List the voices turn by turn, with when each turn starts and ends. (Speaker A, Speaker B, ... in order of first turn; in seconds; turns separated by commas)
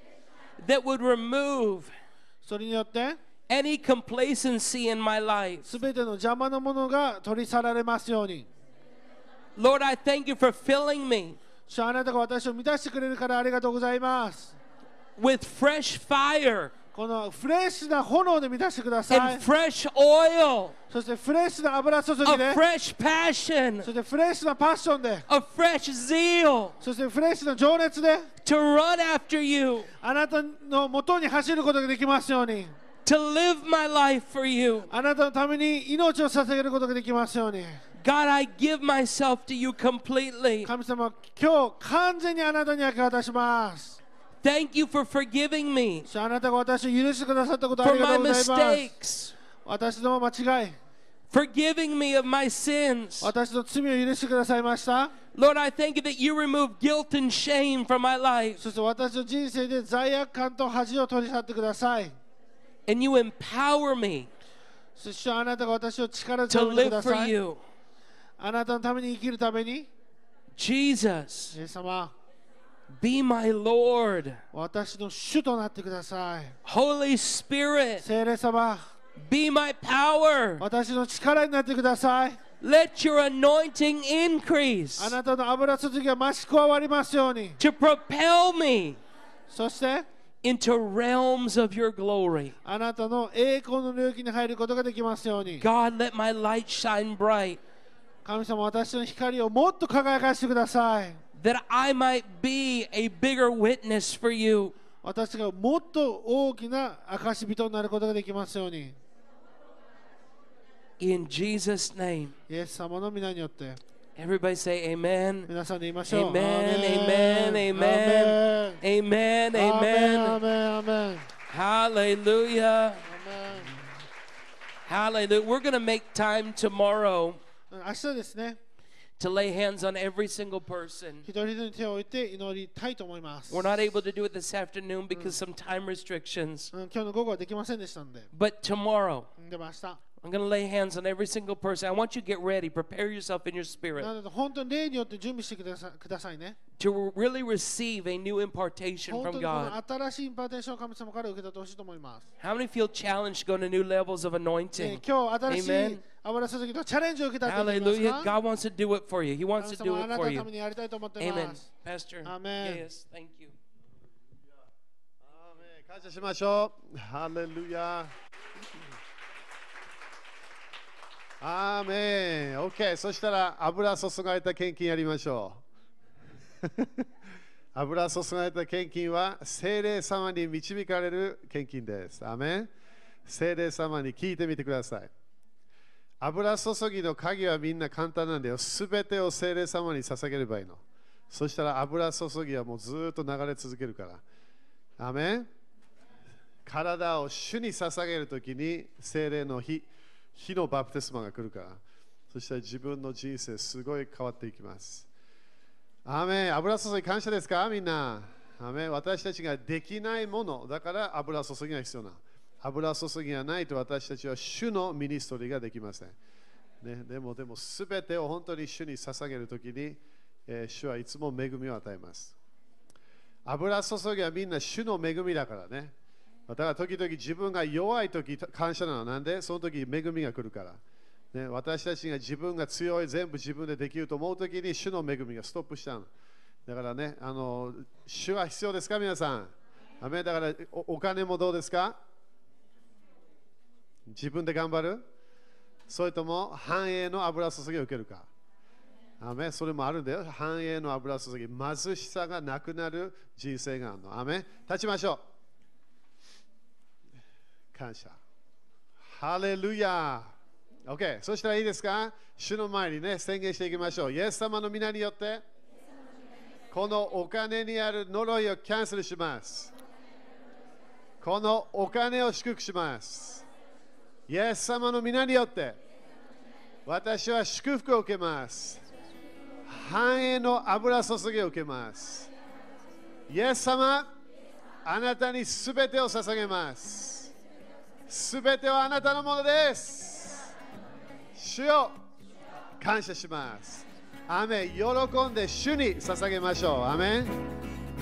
Speaker A: 0.6-1.9, Speaker B: 2.4-3.2, Speaker A: 3.5-5.8, Speaker B: 5.7-8.5, Speaker A: 9.6-11.4, Speaker B: 11.7-14.6, Speaker A: 15.2-16.7, Speaker B: 16.9-19.4, Speaker A: 19.1-20.7, Speaker B: 20.9-22.6, Speaker A: 22.2-23.9, Speaker B: 23.8-25.3, Speaker A: 25.3-26.8, Speaker B: 26.8-28.3, Speaker A: 28.4-29.9, Speaker B: 30.0-32.7, Speaker A: 33.0-34.9, Speaker B: 34.9-37.8, Speaker A: 38.0-40.7, Speaker B: 40.6-44.0, Speaker A: 44.4-46.1, Speaker B: 46.1-48.9, Speaker A: 47.8-49.4, Speaker B: 49.6-50.7, Speaker A: 51.3-53.3, Speaker B: 53.2-55.1, Speaker A: 55.3-58.6, Speaker B: 58.6-62.2, Speaker A: 62.9-64.3, Speaker B: 65.0-67.3, Speaker A: 66.5-67.6, Speaker B: 68.4-69.9, Speaker A: 70.6-71.5, Speaker B: 71.5-72.1, Speaker A: 72.9-74.4, Speaker B: 74.5-76.6, Speaker A: 76.7-78.0, Speaker B: 78.0-78.8, Speaker A: 79.2-80.7, Speaker B: 80.6-82.4, Speaker A: 82.6-85.2, Speaker B: 85.0-87.6, Speaker A: 87.6-89.0, Speaker B: 89.5-90.1, Speaker A: 90.4-92.5, Speaker B: 92.7-95.7, Speaker A: 95.6-97.6, Speaker B: 98.2-101.2, Speaker A: 101.4-104.7, Speaker B: 105.0-109.0, Speaker A: 111.0-112.3, Speaker B: 112.5-113.8, Speaker A: 114.2-115.5, Speaker B: 115.5-118.8, Speaker A: 116.1-120.4, Speaker B: 119.5-121.3, Speaker A: 121.5-123.1, Speaker B: 123.0-123.8, Speaker A: 124.9-127.4, Speaker B: 127.7-128.6, Speaker A: 129.2-131.2, Speaker B: 131.3-133.8, Speaker A: 133.5-136.7, Speaker B: 135.1-135.4, Speaker B: 136.7-138.3, Speaker A: 138.3-139.3, Speaker B: 139.4-140.0, Speaker A: 140.2-144.1, Speaker B: 144.0-146.6, Speaker A: 146.8-149.8, Speaker B: 149.1-152.3, Speaker A: 152.4-156.0, Speaker B: 154.7-158.3, Speaker A: 157.4-160.5, Speaker B: 159.6-161.7, Speaker A: 161.2-163.5, Speaker B: 162.2-162.8, Speaker C: 165.2-168.1, Speaker C: 171.4-175.6, Speaker C: 176.6-177.1, Speaker C: 177.7-182.7, Speaker C: 183.2-185.1, Speaker C: 186.2-194.2, Speaker C: 195.0-195.5, Speaker C: 196.7-205.1, Speaker C: 206.1-216.2, Speaker C: 216.8-222.3, Speaker C: 223.4-225.9, Speaker C: 226.5-230.8, Speaker C: 231.3-236.1, Speaker C: 236.7-241.9, Speaker C: 244.1-245.0, Speaker C: 245.9-248.3, Speaker C: 249.2-255.2, Speaker C: 257.7-258.2, Speaker C: 259.0-260.3, Speaker C: 260.9-265.4, Speaker C: 266.7-269.7, Speaker C: 271.2-273.4, Speaker C: 274.3-275.8, Speaker C: 276.9-278.8, Speaker C: 279.7-282.3, Speaker C: 283.3-284.1, Speaker C: 284.9-287.3, Speaker C: 288.1-290.5, Speaker C: 291.4-292.0, Speaker C: 292.8-297.4